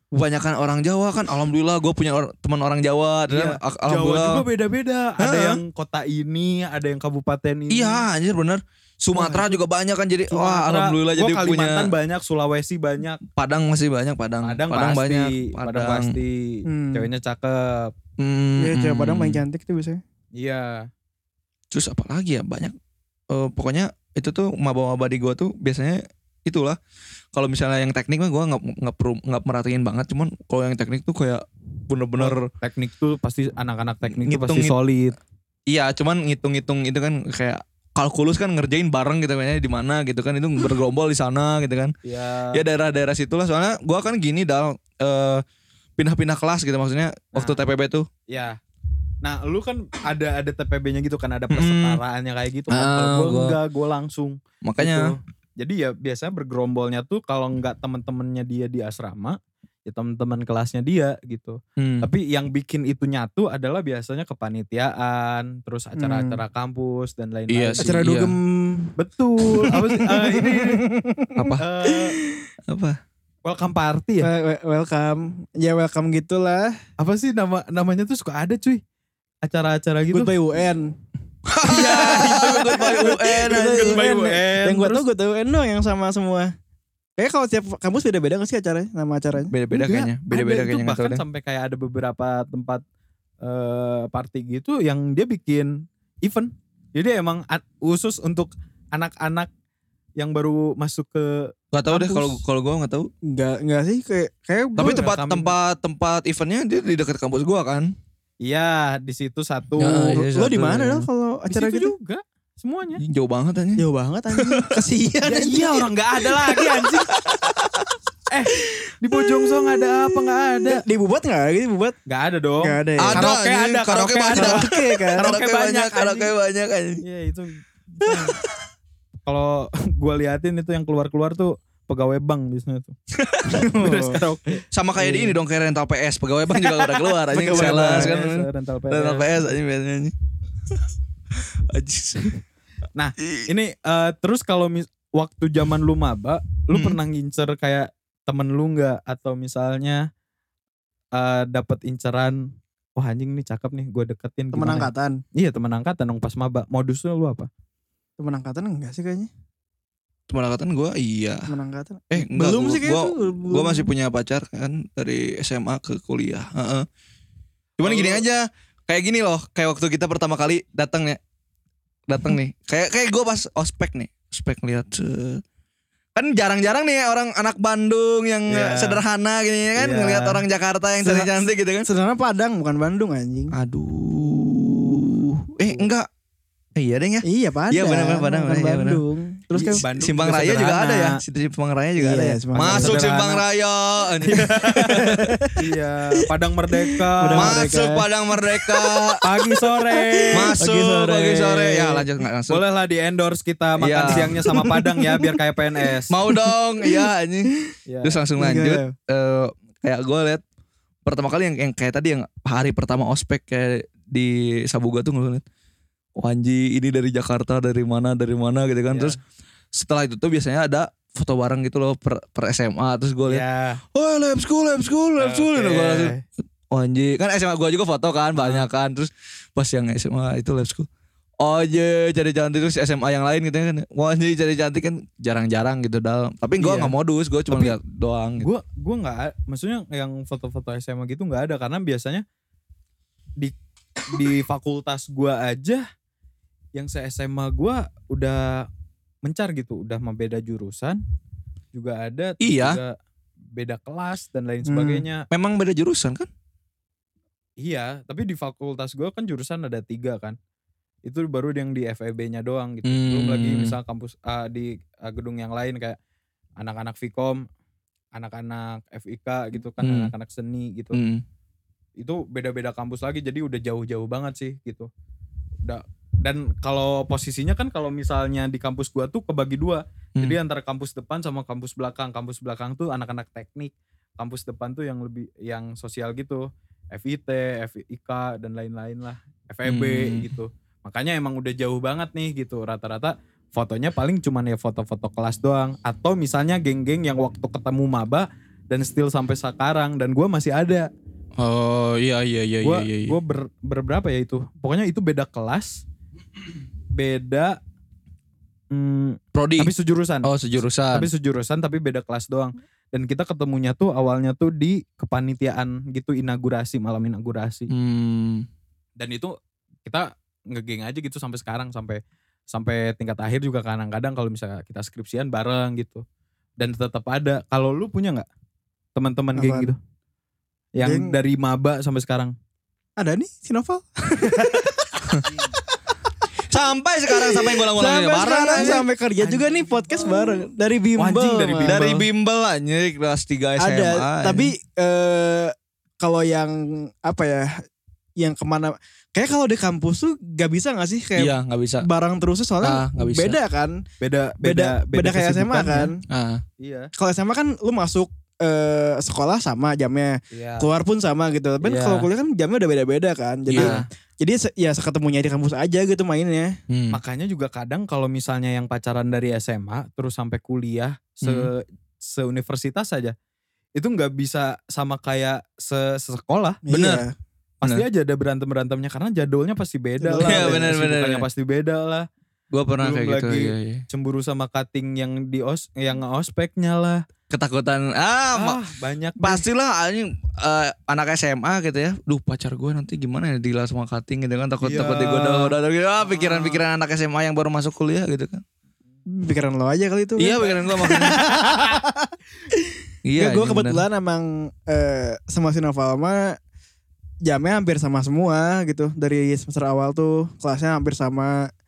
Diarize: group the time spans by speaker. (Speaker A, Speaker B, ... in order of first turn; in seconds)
Speaker A: 0.1-4.4, 5.2-5.6, 7.7-11.9, 13.2-16.2, 18.2-19.4, 21.7-22.7, 23.3-26.8, 27.3-32.5, 34.1-34.7, 35.7-41.9, 42.5-45.4, 46.0-48.1, 51.5-52.0, 52.7-53.6, 54.6-55.1, 61.8-62.1, 67.5-68.4, 71.4-71.7, 72.7-73.0, 81.5-84.0, 89.5-91.2, 101.7-103.1, 104.8-107.9, 109.8-111.1, 113.0-113.8, 114.3-114.7, 117.1-117.9, 123.0-127.0, 128.0-128.5, 133.1-133.6, 134.7-140.1, 141.4-142.3, 143.2-143.5, 146.7-147.0, 160.3-161.5, 162.1-166.9, 167.8-171.2, 172.1-175.4, 176.1-181.9, 183.5-186.1, 186.8-189.0, 189.7-195.3, 197.4-199.2, 200.3-202.6, 203.8-204.7, 206.1-207.5, 208.0-210.4, 211.1-215.4, 216.2-219.2, 219.7-223.4, 223.9-226.1, 226.7-230.9, 231.4-238.5, 252.4-252.8, 255.3-256.3, 262.9-263.8, 269.8-270.1, 270.9-271.2, 289.6-290.3, 301.4-303.2, 309.3-311.1, 317.7-318.5, 336.5-338.9, 341.7-344.5, 351.2-351.9, 352.6-353.4, 356.0-356.4, 363.5-363.9, 366.7-367.0, 371.2-371.5, 376.7-377.1, 380.3-381.2, 382.5-383.8, 387.3-388.6, 389.2-398.4, 400.2-401.2, 403.1-403.9
Speaker B: 3.3-8.1, 10.3-13.2, 14.4-17.9, 20.3-20.9, 32.2-35.2, 42.0-42.6, 47.4-47.6, 48.3-48.6, 49.2-68.0, 69.0-70.8, 71.6-72.2, 73.4-74.3, 77.0-78.8, 79.4-80.3, 81.9-85.0, 89.8-92.8, 93.4-99.5, 100.2-102.4, 104.8-105.5, 108.4-110.2, 111.5-113.0, 115.2-117.1, 118.3-120.8, 122.1-126.3, 127.0-128.4, 129.3-132.9, 133.8-135.4, 136.8-139.5, 142.9-150.1, 151.1-157.5, 167.8-168.2, 178.5-179.0, 179.8-180.4, 189.6-191.2, 192.6-193.4, 194.2-197.6, 199.2-206.2, 207.9-208.2, 218.9-219.2, 223.3-223.8, 225.2-226.2, 228.4-228.7, 236.6-236.9, 237.5-237.8, 238.4-242.2, 244.1-245.8, 246.7-248.7, 249.2-251.0, 251.7-252.9, 253.6-255.3, 257.6-260.4, 261.1-266.0, 266.6-267.4, 268.1-271.0, 272.0-274.9, 275.6-300.9, 302.6-305.8, 306.9-307.6, 308.7-310.3, 310.9-317.7, 319.0-326.0, 326.6-328.3, 328.9-329.8, 330.7-332.3, 338.6-340.1, 341.0-342.1, 354.0-355.9, 356.6-356.9, 360.3-360.7, 361.6-362.1, 363.6-363.8, 366.9-373.1, 373.7-376.6, 377.6-382.1, 382.8-387.0, 388.4-389.4, 394.6-396.6
Speaker C: 9.1-9.5, 16.6-17.1, 18.6-20.0, 66.0-66.4, 67.8-68.9, 70.0-71.4, 74.2-76.8, 80.1-80.9, 81.6-86.5, 87.2-89.5, 103.3-105.1, 110.1-111.9, 113.8-115.9, 120.7-121.9, 122.6-123.3, 124.3-125.3, 133.5-134.2, 137.4-138.2, 154.5-155.2, 158.2-159.3, 161.5-163.9, 181.0-183.6, 187.2-189.8, 192.0-193.0, 194.7-195.6, 196.9-198.1, 198.6-200.6, 206.8-207.6, 208.4-208.9, 254.7-255.0, 329.4-329.7, 330.8-331.1, 333.0-335.2, 337.1-341.8, 343.6-347.6, 348.2-353.8, 354.4-356.0, 356.9-366.6, 376.6-377.1, 380.0-380.7, 399.1-406.4, 407.2-411.5